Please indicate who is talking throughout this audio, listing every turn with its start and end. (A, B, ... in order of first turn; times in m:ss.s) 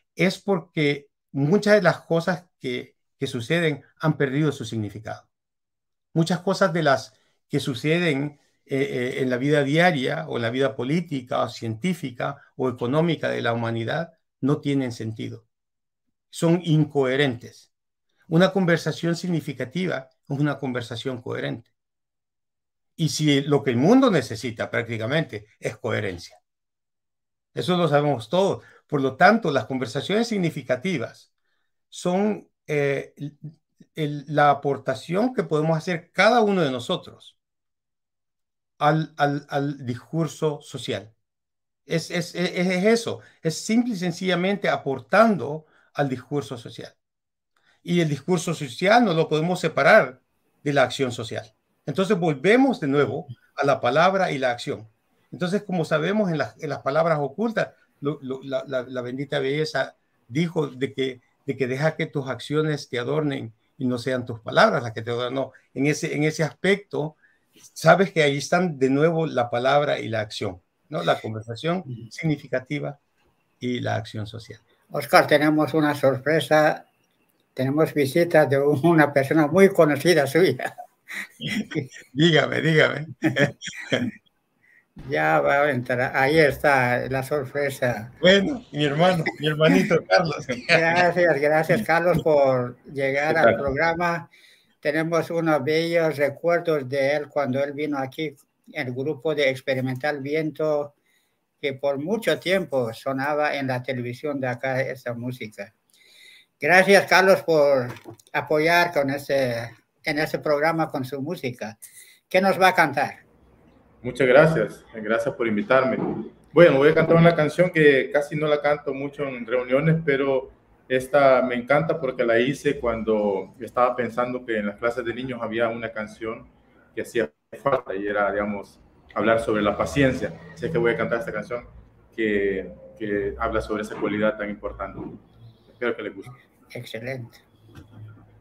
0:00.2-0:05.3 A
0:06.1-0:15.4 A
0:16.3-0:17.7 A
0:18.3-0:21.7 A
0:23.0-0:26.4 A
0:27.5-0:31.3 A
0:31.9-0:37.4 A
0:38.8-0:41.1 A
0:41.9-0:47.0 A
0:47.8-1:07.2 A
1:07.7-1:13.0 A
1:13.6-1:14.6 A
1:14.9-1:16.8 B
1:17.6-1:20.7 B
1:21.4-1:21.9 B
1:21.5-1:24.1 A
1:25.0-1:28.1 B
1:28.2-1:31.0 A
1:30.6-1:34.3 B
1:34.8-1:40.9 B
1:41.6-1:45.7 B
1:46.6-1:51.8 B
1:52.3-1:53.2 B
1:54.0-2:15.2 C
2:15.7-2:16.3 C
2:16.7-2:17.4 B